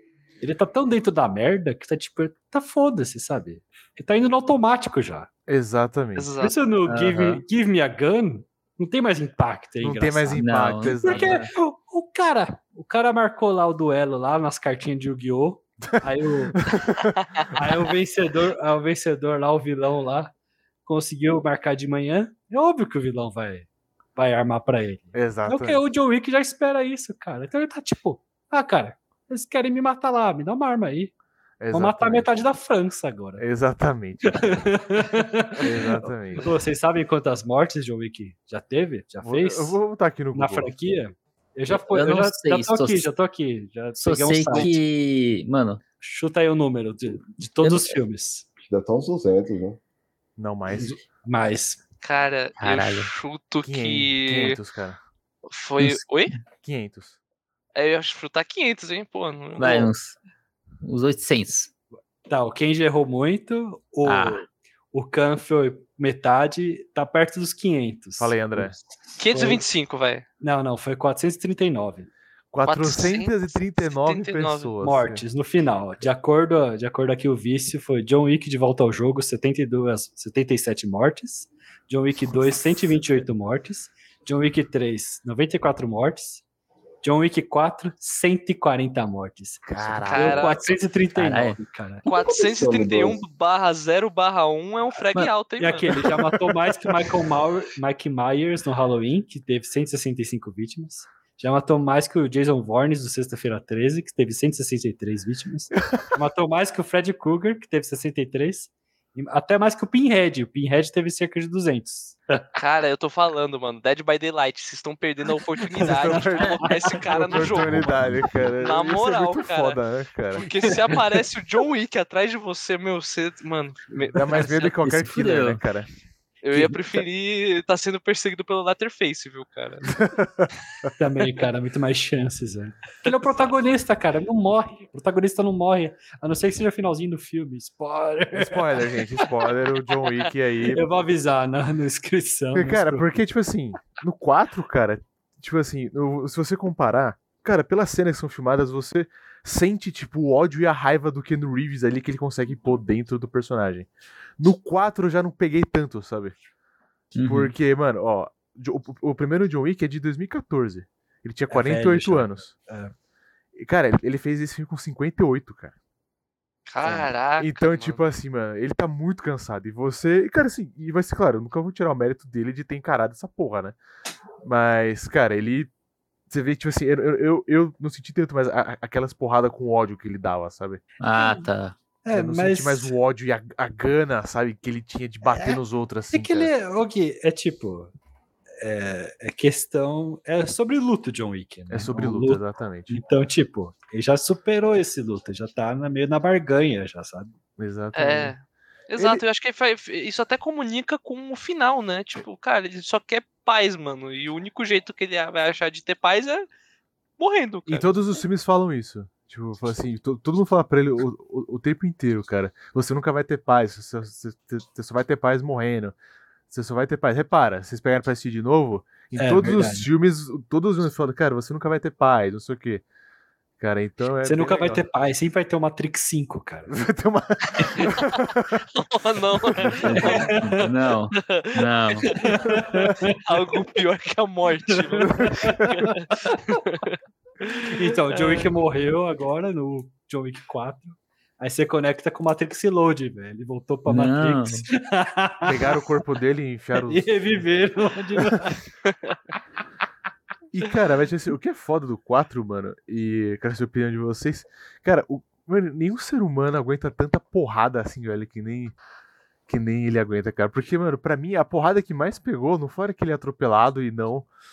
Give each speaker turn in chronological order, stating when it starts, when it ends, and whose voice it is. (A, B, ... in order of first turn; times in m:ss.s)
0:00.4-0:05.3 A
0:05.5-0:06.3 B
0:06.2-0:06.6 C
0:06.4-0:16.7 A
0:06.9-0:07.4 D
0:09.8-0:11.4 B
0:10.4-0:11.5 D
0:16.7-0:17.2 B
0:17.5-0:20.3 A
0:20.9-0:31.1 A
0:25.1-0:25.8 B
0:31.6-0:32.4 B
0:31.7-0:33.5 A
0:33.4-0:34.7 B
0:34.3-0:39.8 A
0:35.6-0:36.5 B
0:39.2-0:40.7 B
0:40.3-0:44.8 A
0:41.7-0:43.1 D
0:44.0-0:45.8 D
0:46.0-0:48.5 A
0:47.6-0:48.0 D
0:48.6-0:49.8 E
0:50.4-0:51.0 B
0:50.7-0:51.8 A
0:52.0-0:54.6 C
0:52.6-0:53.1 D
0:53.6-0:55.0 B
0:55.5-0:56.3 C
0:56.6-0:57.2 B
0:57.8-0:59.9 C
0:59.6-1:00.2 D
1:00.8-1:01.7 D
1:02.3-1:09.6 A
1:04.0-1:04.4 D
1:08.2-1:08.8 B
1:09.2-1:10.2 C
1:10.4-1:12.1 A
1:12.5-1:15.2 B
1:12.6-1:14.7 C
1:14.8-1:26.4 A
1:22.2-1:23.0 B
1:27.0-1:32.0 A
1:29.7-1:30.6 B
1:30.0-1:30.7 C
1:31.2-1:31.6 D
1:32.0-1:33.2 E
1:32.1-1:35.9 C
1:35.6-1:52.4 A
1:52.6-1:57.9 C
1:55.8-2:00.7 B
1:55.8-1:58.1 A
1:57.7-1:58.0 D
1:58.6-1:59.8 C
2:00.3-2:04.6 C
2:04.1-2:05.9 B
2:04.3-2:05.6 D
2:06.4-2:10.0 C
2:06.5-2:07.0 D
2:10.0-2:10.5 B
2:11.0-2:18.9 A
2:18.3-2:20.8 B
2:20.7-2:23.1 A
2:22.5-2:36.4 B
2:37.1-2:37.5 D
2:37.2-2:42.6 B
2:41.5-2:42.9 A
2:43.6-2:45.7 B
2:46.7-2:48.0 C
2:46.8-2:53.8 B
2:54.4-2:55.7 B
2:56.3-3:00.8 B
3:01.0-3:01.8 D
3:01.1-3:01.5 A
3:02.0-3:02.9 A
3:02.1-3:06.5 B
3:05.2-3:05.6 A
3:06.1-3:07.9 A
3:08.6-3:17.3 A
3:11.7-3:13.0 B
3:17.6-3:18.3 B
3:17.9-3:26.5 C
3:19.0-3:19.2 B
3:27.2-3:28.0 C
3:27.7-3:36.0 B
3:36.5-3:42.8 B
3:39.2-3:39.9 A
3:43.6-3:44.8 B
3:44.2-3:46.9 A
3:46.7-3:48.7 B
3:47.6-3:47.8 C
3:48.8-3:50.4 C
3:49.4-3:50.2 B
3:49.8-3:52.1 D
3:50.0-3:50.7 A
3:51.1-3:52.4 C
3:52.2-3:53.2 A
3:52.5-3:52.8 B
3:53.2-3:58.5 C
3:54.7-3:56.4 A
3:55.2-3:55.8 B
3:57.7-4:05.7 A
4:03.9-4:04.7 D
4:05.4-4:07.4 B
4:06.8-4:08.7 A
4:10.5-4:18.8 B
4:19.5-4:24.3 B